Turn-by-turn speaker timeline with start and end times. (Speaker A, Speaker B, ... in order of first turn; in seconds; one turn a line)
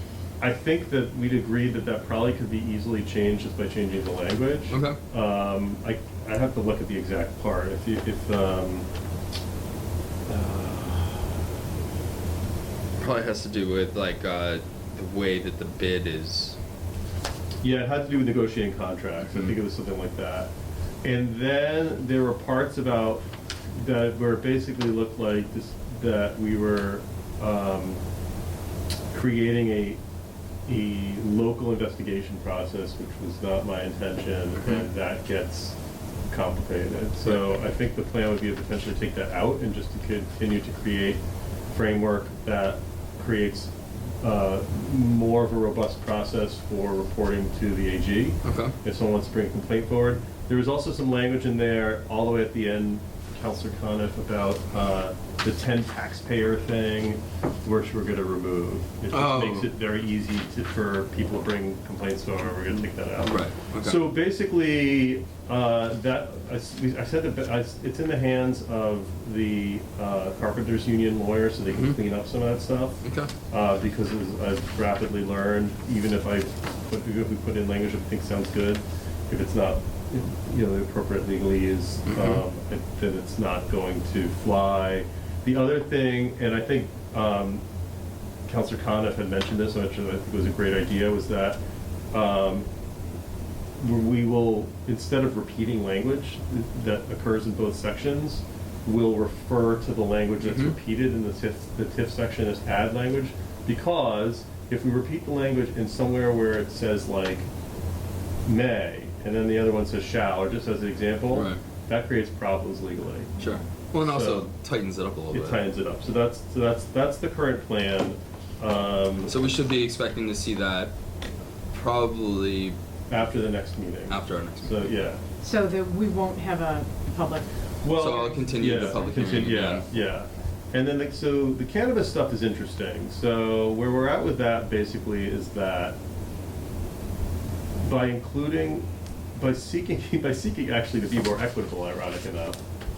Speaker A: 0.4-8.9
Speaker B: 4.7-5.0
Speaker A: 10.3-11.3
Speaker B: 13.0-16.6
Speaker A: 17.6-20.5
Speaker A: 21.0-23.2
Speaker A: 23.8-28.0
Speaker A: 29.1-30.0
Speaker A: 30.7-35.8
Speaker A: 36.3-87.6
Speaker B: 48.4-48.8
Speaker B: 59.1-59.7
Speaker B: 63.3-64.1
Speaker B: 71.7-72.0
Speaker B: 73.0-73.3
Speaker B: 82.1-82.4
Speaker A: 88.5-91.6
Speaker A: 92.1-92.7
Speaker A: 93.8-107.5
Speaker B: 100.4-100.8
Speaker A: 108.5-113.3
Speaker B: 111.3-111.6
Speaker B: 113.4-115.6
Speaker A: 114.0-114.5
Speaker A: 115.3-119.3
Speaker B: 119.3-120.9
Speaker B: 121.7-122.8
Speaker A: 123.1-125.2
Speaker B: 124.1-124.9
Speaker C: 125.4-128.8
Speaker A: 127.8-136.0
Speaker B: 128.0-129.9
Speaker A: 137.8-142.6